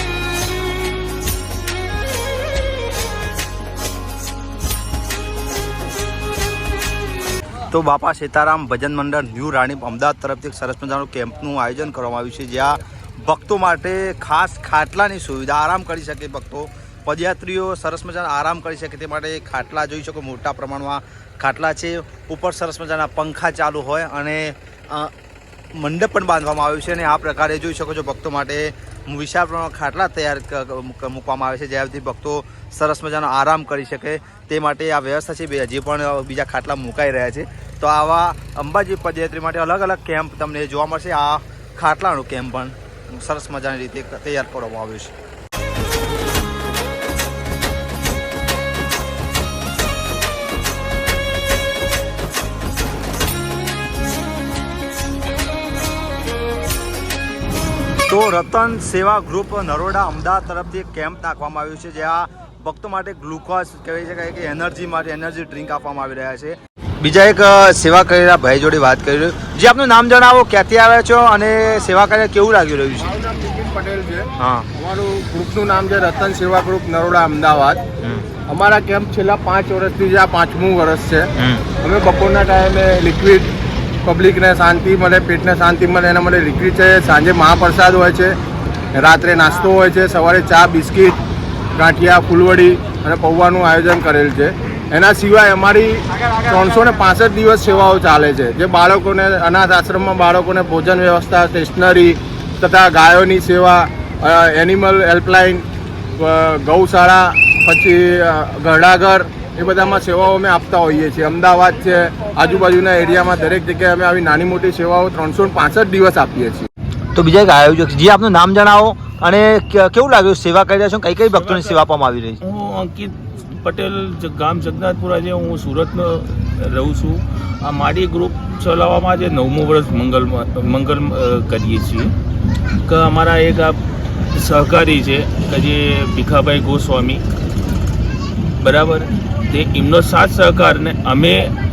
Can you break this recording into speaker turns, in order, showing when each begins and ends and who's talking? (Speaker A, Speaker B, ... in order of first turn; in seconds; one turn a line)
Speaker A: 7.7-25.1
Speaker A: 25.8-45.1
Speaker A: 58.1-73.2
Speaker B: 73.1-77.8
Speaker A: 74.4-74.7
Speaker A: 78.0-78.3
Speaker B: 78.5-83.5
Speaker A: 81.4-81.7
Speaker B: 84.0-88.3
Speaker B: 88.9-91.2
Speaker B: 91.8-105.7
Speaker B: 106.2-116.7
Speaker A: 117.1-122.4
Speaker C: 121.3-121.8
Speaker C: 122.4-132.1
Speaker C: 132.8-133.8
Speaker C: 134.3-137.2
Speaker C: 138.6-141.5